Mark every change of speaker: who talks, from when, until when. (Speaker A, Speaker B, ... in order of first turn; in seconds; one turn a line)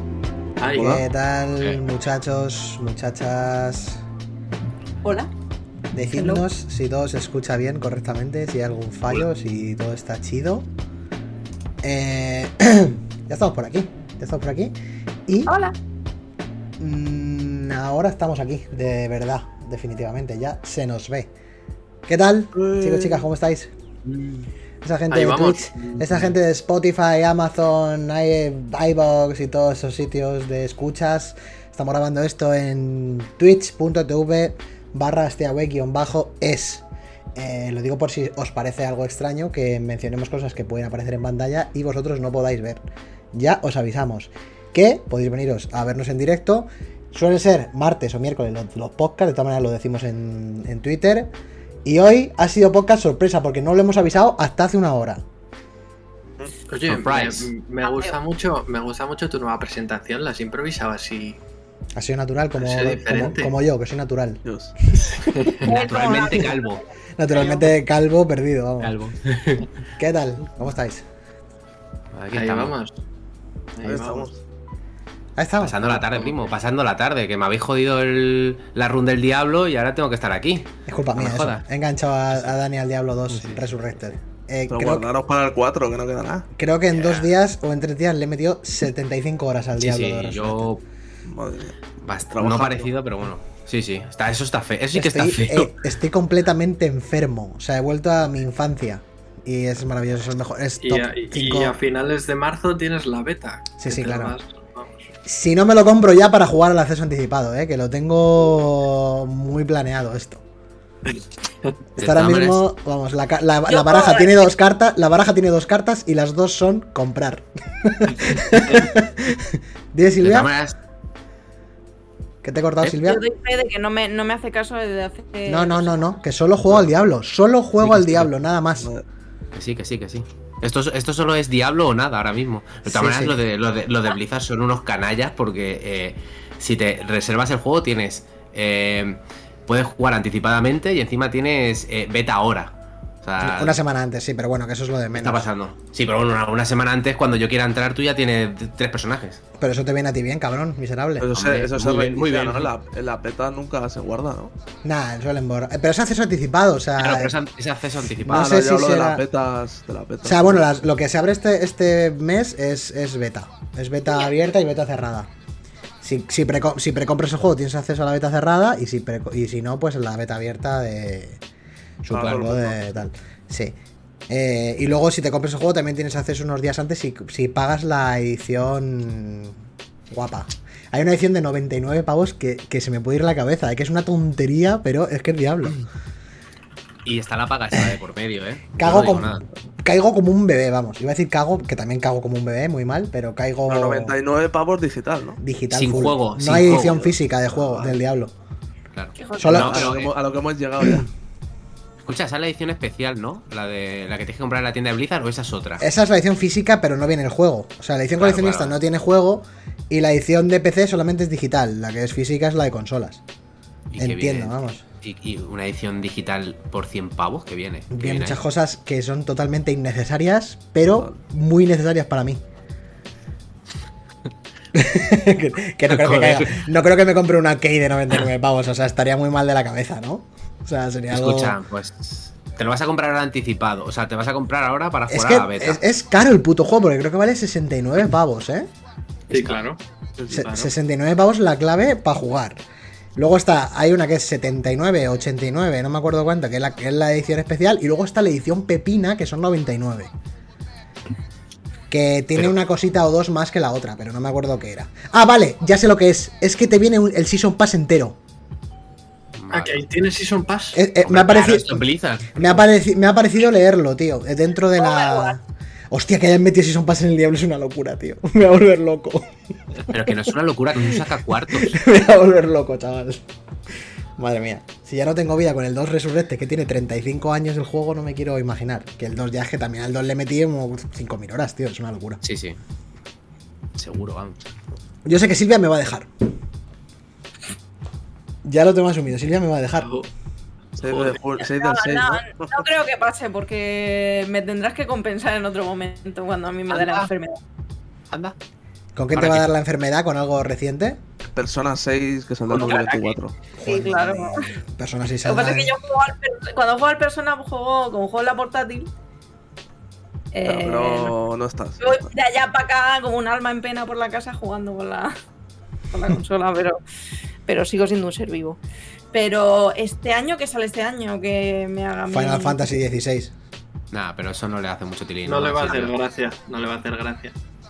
Speaker A: 0.6-1.0
Speaker B: 0.8-4.0
Speaker C: 0.8-1.0
Speaker D: 5.0-5.3
Speaker B: 5.9-10.7
Speaker D: 6.2-6.4
Speaker B: 11.8-14.7
Speaker B: 15.3-15.5
Speaker D: 15.5-15.8
Speaker B: 16.8-21.3
Speaker B: 22.1-23.7
Speaker C: 22.6-23.3
Speaker E: 24.1-24.4
Speaker B: 24.8-42.8
Speaker A: 25.1-26.1
Speaker B: 43.3-51.3
Speaker B: 51.9-55.2
Speaker A: 56.7-61.4
Speaker E: 56.9-57.5
Speaker D: 57.8-58.2
Speaker B: 62.0-65.5
Speaker A: 62.6-63.5
Speaker C: 64.5-64.7
Speaker A: 65.2-65.7
Speaker E: 65.7-66.8
Speaker D: 65.7-67.7
Speaker B: 67.2-69.0
Speaker E: 68.8-69.7
Speaker B: 70.0-71.0
Speaker E: 72.1-72.8
Speaker A: 72.3-72.9
Speaker A: 73.8-74.3
Speaker C: 73.8-74.4
Speaker B: 75.4-76.3
Speaker E: 75.6-81.6
Speaker B: 80.8-85.1
Speaker E: 83.3-83.7
Speaker C: 84.7-86.5
Speaker B: 86.5-90.7
Speaker E: 86.9-87.3
Speaker E: 89.8-90.8
Speaker C: 91.2-91.8
Speaker E: 92.0-95.7
Speaker C: 92.3-92.9
Speaker B: 94.9-101.8
Speaker A: 100.8-105.1
Speaker B: 103.8-104.3
Speaker B: 105.2-110.4
Speaker A: 111.1-111.7
Speaker B: 112.0-120.5
Speaker E: 112.0-112.6
Speaker D: 113.7-114.5
Speaker E: 120.2-120.8
Speaker B: 122.4-123.2
Speaker D: 123.0-126.1
Speaker B: 125.5-128.9
Speaker E: 127.8-128.3
Speaker E: 129.5-143.8
Speaker B: 132.8-133.4
Speaker B: 143.4-145.5
Speaker E: 145.2-149.4
Speaker B: 149.6-151.3
Speaker C: 151.2-154.5
Speaker E: 151.3-152.7
Speaker B: 154.8-157.3
Speaker E: 157.0-158.5
Speaker B: 158.2-159.2
Speaker C: 158.3-160.6
Speaker B: 160.2-165.3
Speaker B: 166.0-171.4
Speaker B: 172.0-173.8
Speaker C: 172.1-172.8
Speaker E: 172.1-172.5
Speaker B: 174.3-179.6
Speaker B: 180.1-185.8
Speaker E: 187.1-189.5
Speaker B: 188.8-194.2
Speaker C: 193.7-195.4
Speaker B: 195.4-198.3
Speaker E: 195.7-198.0
Speaker E: 198.9-200.1
Speaker D: 199.2-199.5
Speaker B: 199.4-200.0
Speaker C: 199.5-201.1
Speaker B: 200.8-201.1
Speaker E: 202.1-205.8
Speaker B: 205.8-213.2
Speaker E: 208.2-208.8
Speaker E: 213.9-218.4
Speaker B: 214.0-214.8
Speaker B: 217.9-222.4
Speaker B: 224.7-231.6
Speaker E: 225.9-226.6
Speaker E: 231.1-235.8
Speaker B: 235.1-238.7
Speaker A: 239.3-240.7
Speaker B: 240.3-242.6
Speaker B: 243.2-250.1
Speaker B: 251.9-258.2
Speaker E: 259.4-259.8
Speaker A: 259.5-260.8
Speaker B: 260.7-273.2
Speaker E: 261.0-262.7
Speaker D: 264.8-265.4
Speaker E: 269.9-271.7
Speaker B: 274.2-282.2
Speaker E: 282.2-282.6
Speaker E: 283.8-284.4
Speaker B: 285.1-286.1
Speaker B: 288.4-289.9
Speaker A: 289.8-290.1
Speaker C: 290.8-292.6
Speaker A: 290.8-291.2
Speaker D: 291.4-297.4
Speaker E: 296.7-297.1
Speaker E: 298.1-298.4
Speaker B: 298.9-301.0
Speaker E: 299.1-299.5
Speaker C: 301.4-303.3
Speaker E: 302.5-303.1
Speaker B: 303.6-305.7
Speaker D: 303.6-304.5
Speaker D: 305.2-308.9
Speaker D: 310.3-311.1
Speaker C: 310.4-312.1
Speaker D: 311.8-315.1
Speaker D: 315.9-316.8
Speaker D: 317.5-318.6
Speaker D: 319.1-322.8
Speaker B: 322.1-323.3
Speaker E: 323.9-325.9
Speaker A: 325.2-327.4